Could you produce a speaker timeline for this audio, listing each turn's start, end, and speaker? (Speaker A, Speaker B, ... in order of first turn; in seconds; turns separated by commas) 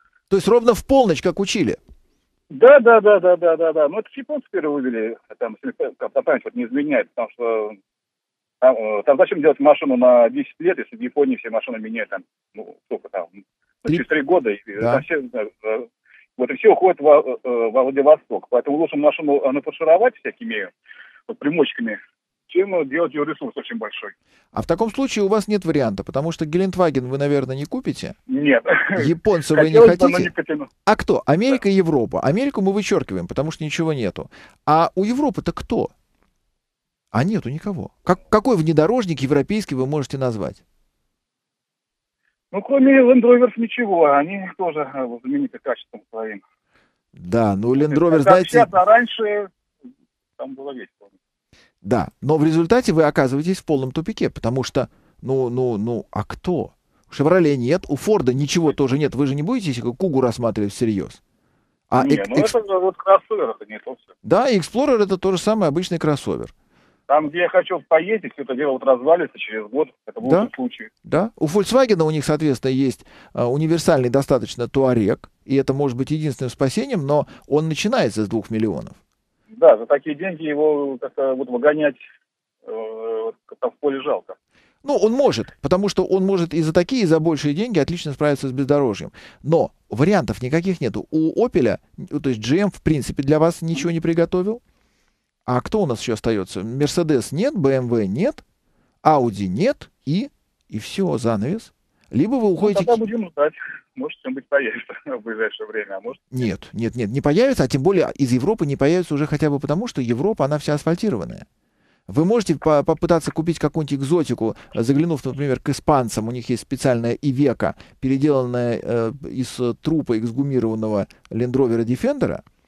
Speaker A: 0.3-1.8, Speaker B: 2.5-7.8, Speaker B: 8.6-13.3, Speaker B: 13.8-20.7, Speaker A: 14.8-15.0, Speaker B: 21.3-24.1, Speaker A: 24.5-28.2, Speaker B: 28.3-30.7, Speaker A: 28.9-30.3, Speaker A: 30.9-35.9, Speaker A: 37.1-40.6, Speaker B: 42.5-46.4, Speaker A: 47.1-48.7, Speaker B: 47.8-49.5, Speaker B: 50.4-51.1, Speaker A: 51.8-61.2, Speaker A: 61.9-62.5, Speaker B: 62.0-64.1, Speaker A: 64.2-66.5, Speaker B: 67.1-70.9, Speaker A: 70.2-70.5, Speaker A: 71.0-79.0, Speaker B: 79.5-82.0, Speaker B: 82.7-84.3, Speaker A: 84.8-94.6, Speaker A: 95.5-98.4, Speaker A: 99.0-103.0, Speaker B: 102.6-106.2, Speaker A: 106.3-111.5, Speaker A: 112.1-122.4